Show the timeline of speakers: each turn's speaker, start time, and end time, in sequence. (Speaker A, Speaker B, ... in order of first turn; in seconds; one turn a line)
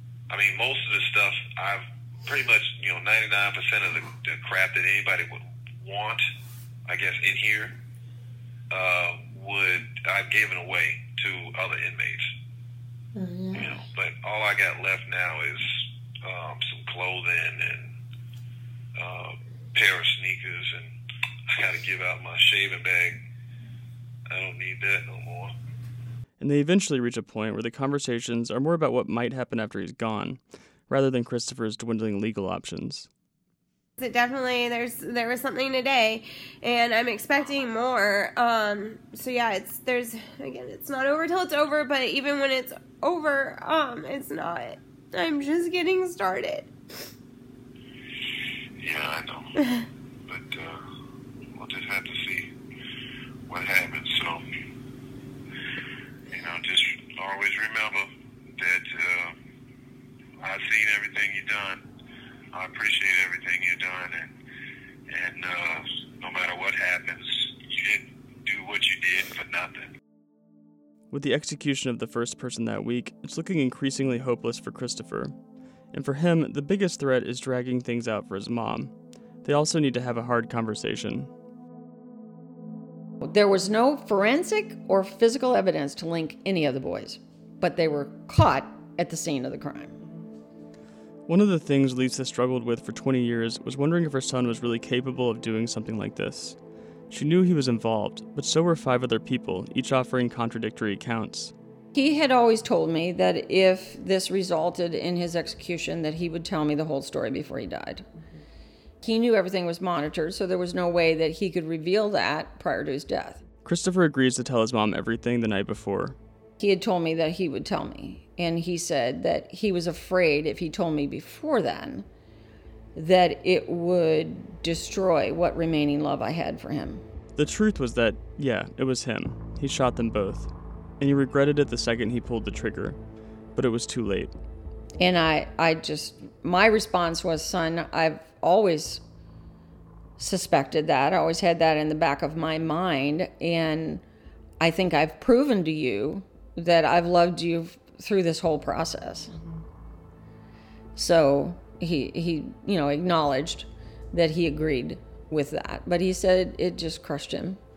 Speaker A: 0.3-6.2
Speaker A: 6.9-7.7
Speaker A: 8.7-12.3
Speaker B: 13.1-13.8
Speaker A: 13.5-17.9
Speaker A: 18.9-20.9
Speaker A: 21.5-23.2
Speaker A: 24.3-25.5
Speaker C: 26.4-33.1
Speaker B: 34.0-46.7
Speaker A: 48.8-49.5
Speaker B: 49.6-49.9
Speaker A: 50.3-50.8
Speaker A: 51.5-52.5
Speaker A: 53.5-54.4
Speaker A: 56.3-59.3
Speaker A: 60.4-61.8
Speaker A: 62.5-64.3
Speaker A: 65.1-69.9
Speaker C: 71.1-75.3
Speaker C: 75.9-78.9
Speaker C: 79.4-81.3
Speaker D: 83.2-90.0
Speaker C: 91.3-96.6
Speaker C: 97.1-101.5
Speaker D: 101.9-108.0
Speaker D: 109.0-113.4
Speaker C: 113.6-116.2
Speaker D: 116.6-122.0
Speaker D: 122.9-127.0
Speaker C: 127.3-133.0
Speaker C: 133.6-134.3
Speaker D: 135.0-139.0
Speaker D: 140.2-144.0
Speaker D: 144.6-149.3
Speaker D: 150.9-157.6